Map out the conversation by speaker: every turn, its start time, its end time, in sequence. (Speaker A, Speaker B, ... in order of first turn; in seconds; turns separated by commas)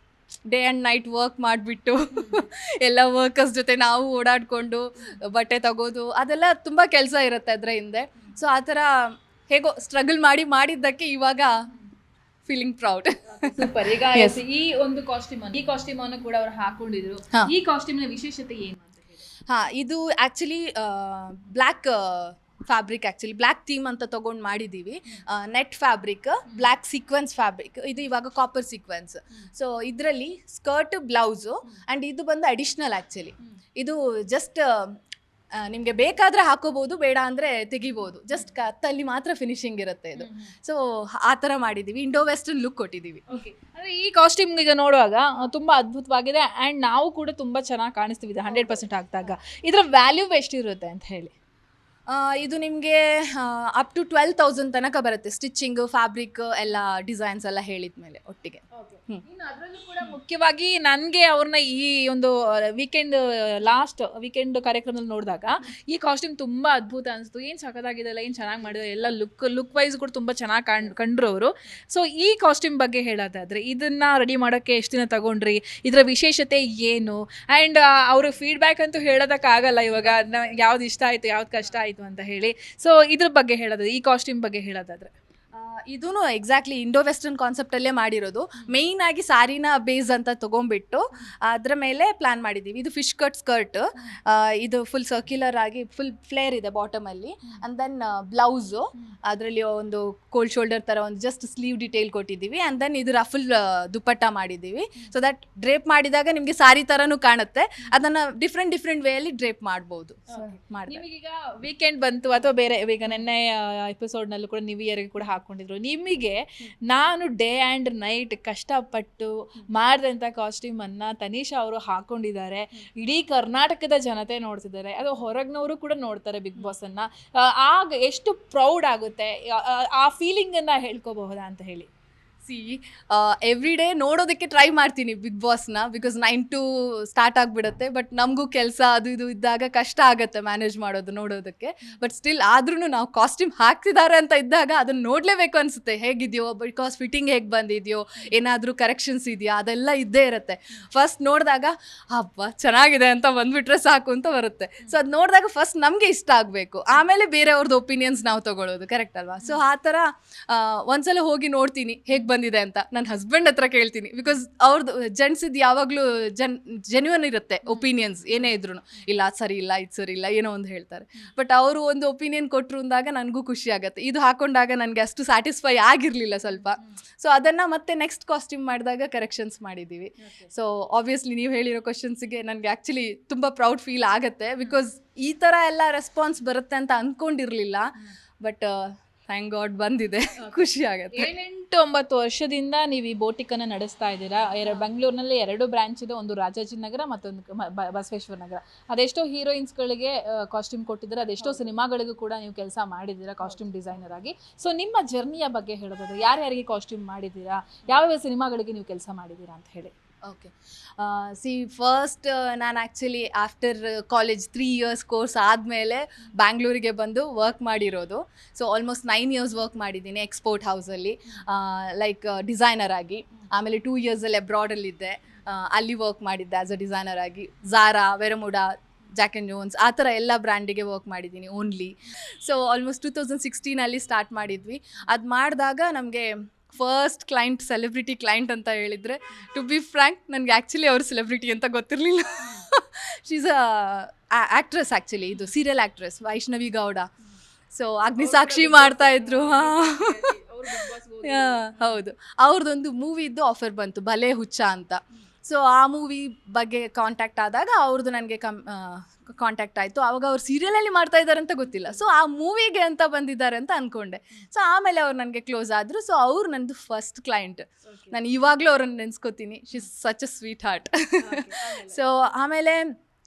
Speaker A: 0.5-11.7, Speaker B: 2.2-2.4, Speaker A: 12.4-14.4, Speaker B: 13.2-19.2, Speaker A: 19.5-35.0, Speaker A: 35.6-43.4, Speaker B: 40.2-40.5, Speaker B: 43.3-51.3, Speaker A: 48.5-48.8, Speaker A: 52.1-59.2, Speaker B: 58.7-85.1, Speaker A: 85.5-111.0, Speaker B: 110.3-131.9, Speaker A: 132.4-191.3, Speaker B: 180.2-180.5, Speaker B: 190.4-209.9, Speaker A: 210.2-247.1, Speaker B: 242.4-242.7, Speaker A: 247.7-250.2, Speaker B: 248.2-252.0, Speaker A: 251.2-272.9, Speaker B: 267.9-268.2, Speaker B: 271.2-272.0